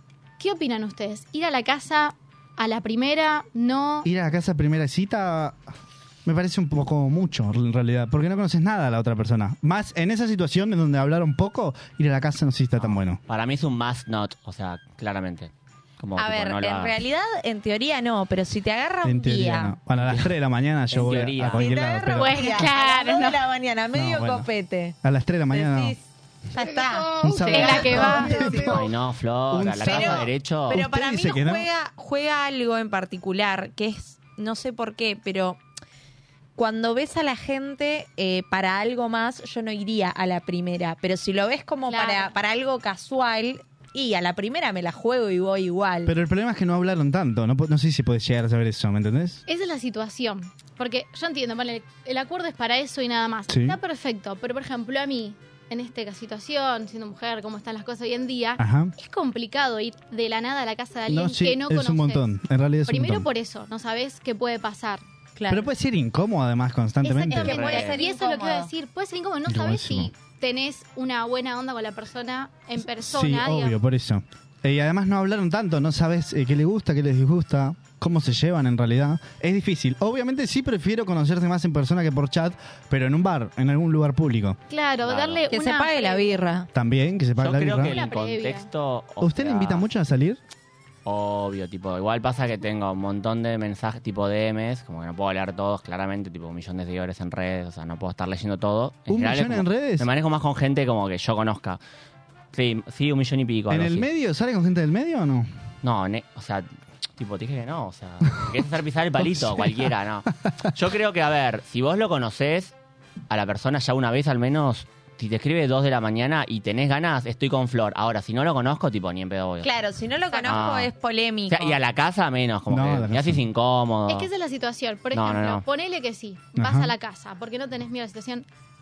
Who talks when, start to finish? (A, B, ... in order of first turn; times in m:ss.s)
0:00.4-0:04.0 A
0:04.0-0:05.6 B
0:06.2-0:13.2 B
0:12.8-0:17.0 C
0:16.2-0:19.8 D
0:19.0-0:22.6 B
0:20.9-0:21.7 C
0:21.6-0:25.0 D
0:22.1-0:23.4 A
0:23.9-0:24.5 B
0:25.0-0:26.0 B
0:25.5-0:28.8 D
0:26.6-0:28.6 A
0:27.2-0:28.9 B
0:28.7-0:30.8 C
0:29.5-0:31.7 B
0:29.8-0:35.6 D
0:36.6-0:46.1 D
0:41.9-0:42.3 A
0:46.0-0:49.4 B
0:49.5-1:02.2 A
0:53.5-0:53.8 B
0:58.6-0:58.9 B
1:01.1-1:03.2 B
1:02.8-1:05.0 A
1:05.4-1:05.7 D
1:05.5-1:07.6 B
1:07.0-1:13.8 A
1:07.3-1:08.7 D
1:07.3-1:08.0 C
1:09.5-1:10.1 B
1:13.0-1:24.6 B
1:24.7-1:26.3 A
1:25.0-1:25.4 C
1:25.5-1:26.7 D
1:26.7-1:28.0 B
1:27.4-1:29.9 C
1:27.8-1:28.7 A
1:29.2-1:30.4 B
1:31.0-1:41.8 C
1:39.1-1:40.1 B
1:42.5-1:44.1 C
1:43.7-1:45.5 B
1:45.8-1:52.7 C
1:49.2-1:49.9 B
1:53.3-1:59.7 C
1:59.6-2:01.8 D
2:00.4-2:00.9 C
2:01.5-2:04.3 C
2:02.7-2:03.4 B
2:04.1-2:08.4 A
2:05.1-2:05.6 C
2:06.6-2:06.9 B